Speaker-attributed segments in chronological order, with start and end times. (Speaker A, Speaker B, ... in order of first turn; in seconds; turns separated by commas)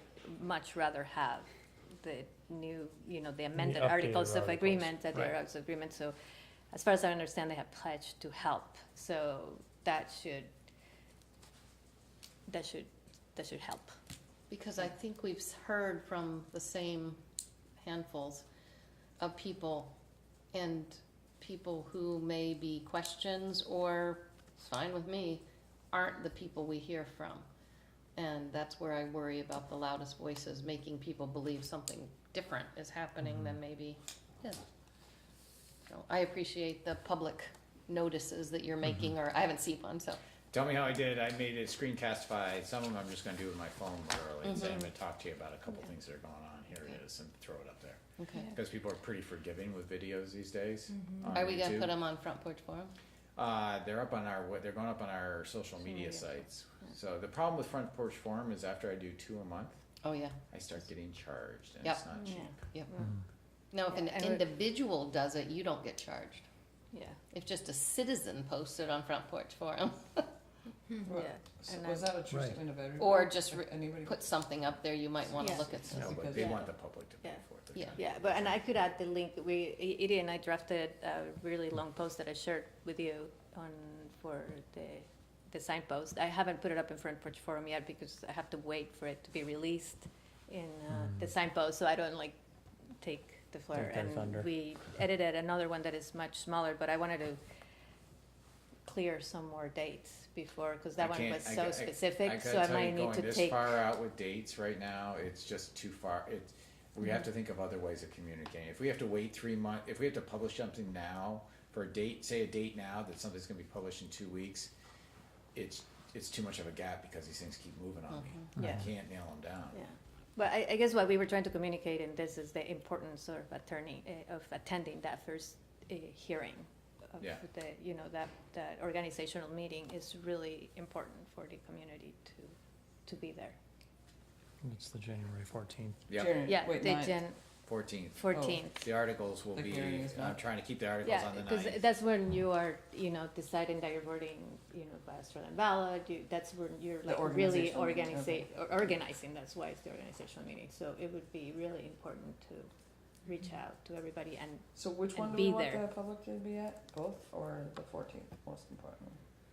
Speaker A: 0.2-6.2, Speaker B: 3.6-5.3, Speaker A: 6.7-10.5, Speaker A: 12.5-14.0, Speaker C: 14.5-17.2, Speaker C: 17.8-18.5, Speaker C: 19.2-19.9, Speaker C: 20.5-27.5, Speaker C: 28.2-34.6, Speaker C: 35.9-40.2, Speaker D: 40.5-51.9, Speaker C: 44.4-44.9, Speaker C: 48.2-48.5, Speaker A: 51.0-51.3, Speaker C: 51.3-52.9, Speaker D: 53.4-59.8, Speaker A: 55.9-56.2, Speaker C: 60.0-60.4, Speaker D: 60.5-62.6, Speaker A: 62.2-63.2, Speaker C: 63.7-66.4, Speaker A: 63.9-64.5, Speaker A: 66.9-67.2, Speaker C: 67.3-70.3, Speaker E: 71.0-74.7, Speaker A: 71.1-72.1, Speaker B: 72.3-72.6, Speaker C: 73.0-76.2, Speaker A: 75.3-75.8, Speaker E: 75.3-76.6, Speaker D: 75.9-78.6, Speaker A: 76.3-76.7, Speaker A: 78.0-92.3, Speaker A: 93.0-97.4, Speaker B: 93.7-94.5, Speaker A: 98.8-103.8, Speaker D: 101.0-114.7, Speaker D: 115.5-119.8, Speaker C: 118.1-118.5, Speaker B: 118.6-118.8, Speaker A: 118.6-118.8, Speaker A: 119.7-133.6, Speaker B: 134.6-136.0, Speaker D: 136.1-136.4, Speaker E: 136.1-137.2, Speaker A: 136.4-137.4, Speaker D: 137.7-141.8, Speaker A: 138.2-138.8, Speaker E: 138.3-138.6, Speaker E: 139.5-140.4, Speaker A: 141.0-152.7, Speaker E: 147.1-148.9, Speaker A: 153.2-155.8, Speaker E: 154.7-159.2